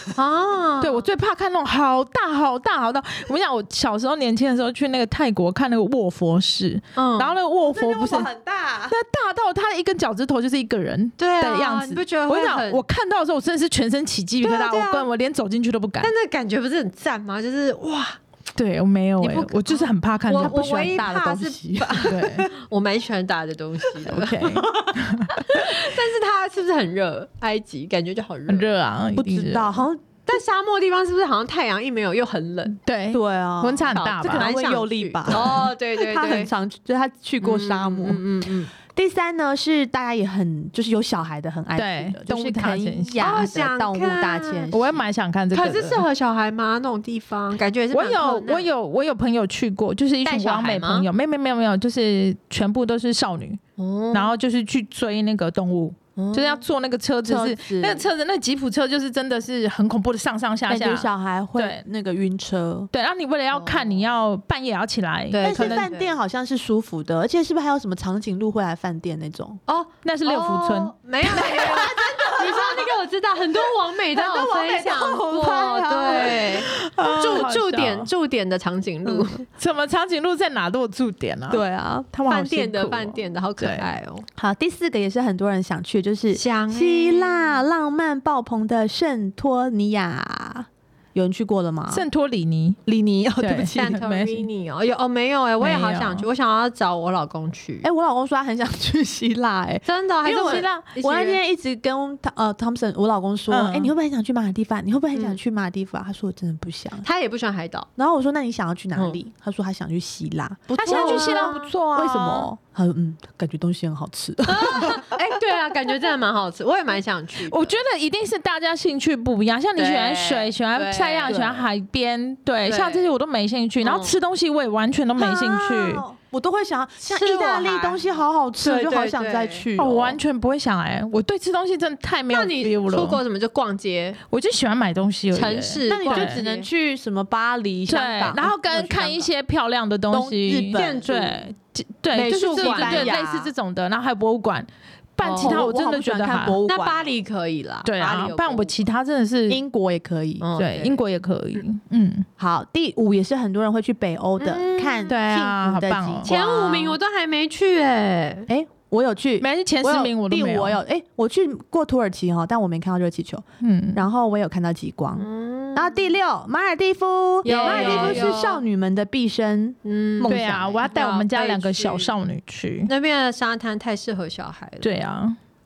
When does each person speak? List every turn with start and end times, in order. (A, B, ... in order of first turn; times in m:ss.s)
0:00.1-0:01.1 A
0:00.8-0:08.3 B
0:07.0-0:07.4 A
0:07.7-0:09.0 C
0:08.9-0:16.1 B
0:11.2-0:12.8 A
0:14.4-0:15.1 A
0:16.0-0:18.2 A
0:18.6-0:20.9 B
0:19.2-0:28.8 A
0:20.3-0:22.5 C
0:22.0-0:22.5 B
0:24.1-0:25.7 B
0:28.5-0:29.9 B
0:29.2-0:30.0 C
0:30.3-0:32.8 A
0:32.8-0:34.5 B
0:33.1-0:38.2 C
0:33.9-0:36.5 A
0:37.4-0:38.7 A
0:38.9-0:45.0 C
0:41.8-0:43.4 B
0:43.2-0:44.7 A
0:44.7-0:46.0 B
0:45.5-0:48.7 A
0:47.9-0:53.6 B
0:50.2-0:51.1 A
0:53.8-0:54.4 A
0:54.1-1:01.8 B
0:56.2-0:56.6 A
0:57.2-0:58.1 C
1:00.7-1:02.9 C
1:02.9-1:05.9 B
1:03.5-1:04.0 A
1:05.3-1:06.1 A
1:05.4-1:09.6 C
1:09.7-1:19.4 A
1:10.0-1:10.9 B
1:11.3-1:12.9 C
1:13.5-1:16.6 C
1:16.7-1:18.1 B
1:19.1-1:19.3 C
1:19.5-1:23.9 B
1:21.5-1:22.1 C
1:22.3-1:24.3 A
1:24.4-1:32.0 C
1:26.3-1:27.6 A
1:31.9-1:32.8 B
1:32.9-1:34.0 C
1:33.4-1:34.5 B
1:33.8-1:37.9 A
1:35.6-1:36.3 B
1:37.8-1:47.0 C
1:39.8-1:41.4 A
1:40.3-1:40.8 B
1:43.5-1:43.9 B
1:47.0-1:47.9 A
1:48.0-1:55.2 C
1:50.7-1:51.7 A
1:50.8-1:52.5 B
1:54.5-1:57.8 A
1:57.5-2:06.0 B
1:59.8-2:01.6 A
2:01.3-2:01.7 C
2:02.7-2:03.1 A
2:03.8-2:04.2 A
2:05.2-2:10.2 C
2:07.0-2:08.0 A
2:08.6-2:09.7 A
2:09.8-2:13.2 B
2:12.3-2:14.2 A
2:14.3-2:16.4 B
2:15.3-2:16.7 A
2:15.9-2:19.3 C
2:17.9-2:26.6 B
2:20.1-2:21.0 C
2:20.7-2:21.4 A
2:22.1-2:23.5 C
2:22.5-2:23.2 A
2:25.2-2:25.6 A
2:25.3-2:27.1 C
2:26.7-2:28.7 A
2:27.8-2:29.6 B
2:29.5-2:30.5 C
2:30.4-2:31.0 A
2:30.6-2:32.3 B
2:32.4-2:37.0 C
2:34.4-2:35.2 A
2:35.1-2:36.3 B
2:36.2-2:38.5 A
2:38.5-2:50.8 C
2:39.4-2:40.8 B
2:43.6-2:44.1 B
2:45.2-2:46.1 A
2:47.4-2:48.6 A
2:47.5-2:48.4 B
2:49.8-2:52.1 A
2:50.3-2:52.9 B
2:52.9-2:54.9 A
2:54.8-2:55.4 B